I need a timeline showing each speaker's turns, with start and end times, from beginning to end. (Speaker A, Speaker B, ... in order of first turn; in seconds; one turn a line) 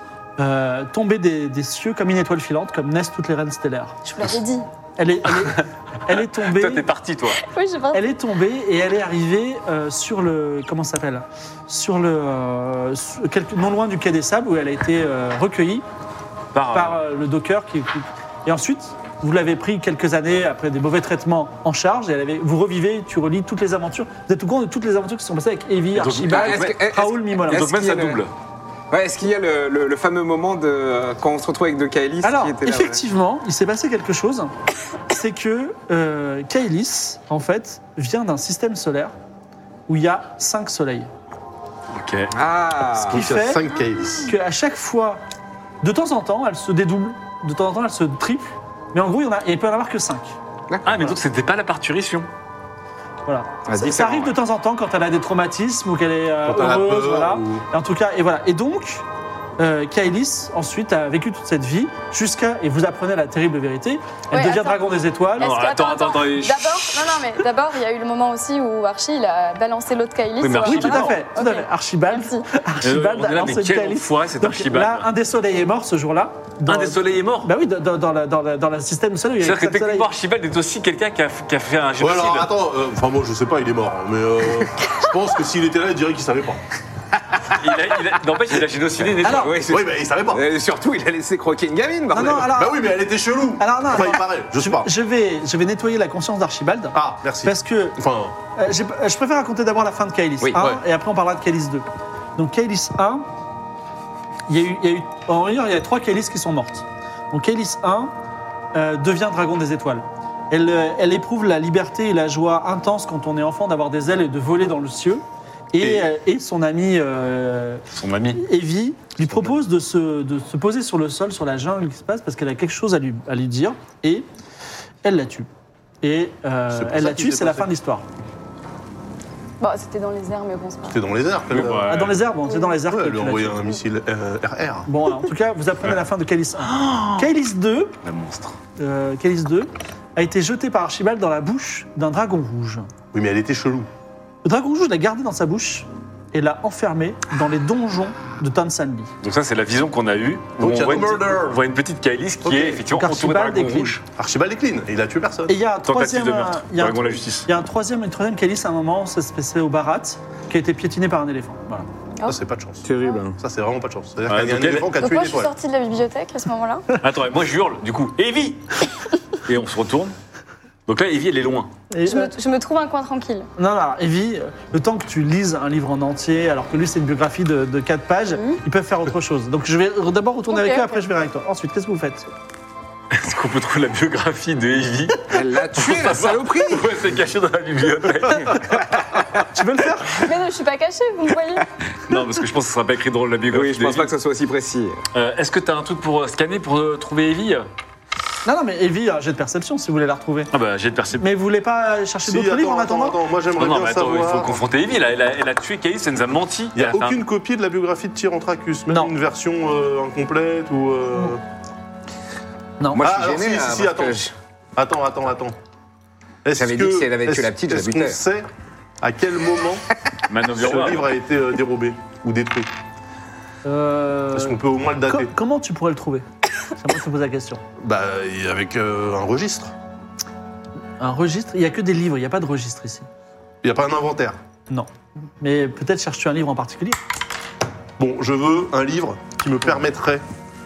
Speaker A: 0.4-4.0
Speaker B: 4.0-4.7
Speaker A: 5.0-6.8
Speaker C: 5.4-7.4
Speaker B: 7.4-8.0
Speaker A: 7.9-15.8
Speaker C: 16.5-17.0
Speaker A: 16.7-27.7
Speaker C: 25.9-26.8
Speaker D: 26.2-28.2
Speaker C: 27.5-28.3
Speaker D: 28.9-33.0
Speaker A: 32.2-34.5
Speaker A: 35.1-39.1
Speaker A: 39.9-41.1
Speaker C: 41.9-42.3
Speaker D: 42.3-43.3
Speaker E: 43.0-44.3
Speaker A: 43.1-43.6
Speaker A: 44.3-45.2
Speaker A: 45.8-50.4
Speaker D: 50.7-51.1
Speaker C: 50.8-52.3
Speaker A: 53.2-59.0
Speaker D: 53.6-54.3
Speaker E: 56.4-57.6
Speaker A: 59.6-65.5
Speaker B: 64.3-72.4
Speaker C: 65.4-67.2
Speaker C: 70.4-71.2
Speaker A: 70.6-80.1
Speaker C: 72.8-75.1
Speaker C: 76.6-77.5
Speaker C: 79.4-82.5
Speaker E: 82.0-86.6
Speaker C: 87.5-89.6
Speaker A: 89.2-89.5
Speaker D: 89.2-92.5
Speaker E: 89.6-90.5
Speaker A: 92.1-92.9
Speaker E: 92.4-94.9
Speaker A: 93.6-98.0
Speaker E: 96.9-98.3
Speaker A: 98.5-101.8
Speaker A: 102.4-103.2
Speaker A: 104.5-108.1
Speaker A: 108.7-117.8
Speaker E: 115.8-116.1
Speaker C: 117.9-118.4
Speaker A: 118.3-124.2
Speaker A: 125.0-125.5
Speaker A: 126.0-128.0
Speaker E: 126.7-127.7
Speaker B: 129.6-131.0
Speaker E: 130.9-132.0
Speaker C: 131.5-132.2
Speaker A: 131.9-133.7
Speaker B: 132.4-132.8
Speaker E: 132.9-134.9
Speaker A: 134.9-137.9
Speaker C: 136.6-137.3
Speaker C: 138.0-138.6
Speaker A: 138.8-142.9
Speaker E: 143.1-143.9
Speaker A: 144.4-149.1
Speaker C: 149.2-154.0
Speaker E: 150.6-151.6
Speaker E: 152.4-152.8
Speaker A: 152.9-154.0
Speaker E: 154.1-155.6
Speaker A: 155.5-161.9
Speaker C: 155.8-157.5
Speaker E: 162.2-165.5
Speaker D: 162.8-163.3
Speaker C: 164.3-164.9
Speaker B: 164.9-166.9
Speaker C: 167.0-168.9
Speaker C: 169.4-170.1
Speaker C: 170.8-171.7
Speaker A: 171.9-172.3
Speaker B: 172.0-173.5
Speaker A: 173.6-182.3
Speaker B: 178.3-178.6
Speaker B: 180.5-180.9
Speaker C: 183.1-189.0
Speaker D: 185.3-186.9
Speaker A: 189.5-190.2
Speaker B: 190.2-191.7
Speaker C: 192.1-194.1
Speaker D: 193.5-195.0
Speaker C: 195.1-197.7
Speaker A: 198.4-200.5
Speaker C: 200.5-201.2
Speaker A: 201.2-203.2
Speaker E: 202.2-204.6
Speaker C: 203.6-207.2
Speaker E: 206.8-211.4
Speaker A: 208.9-209.1
Speaker A: 212.8-213.1
Speaker D: 212.9-214.3
Speaker E: 212.9-215.5
Speaker E: 216.4-218.5
Speaker D: 216.6-218.2
Speaker E: 219.0-219.8
Speaker C: 220.3-221.1
Speaker E: 220.6-222.7
Speaker A: 223.6-226.2
Speaker E: 224.3-225.3
Speaker A: 226.8-227.6
Speaker E: 227.8-229.7
Speaker A: 231.0-233.1
Speaker E: 233.6-234.4
Speaker A: 235.4-237.0
Speaker E: 238.0-240.2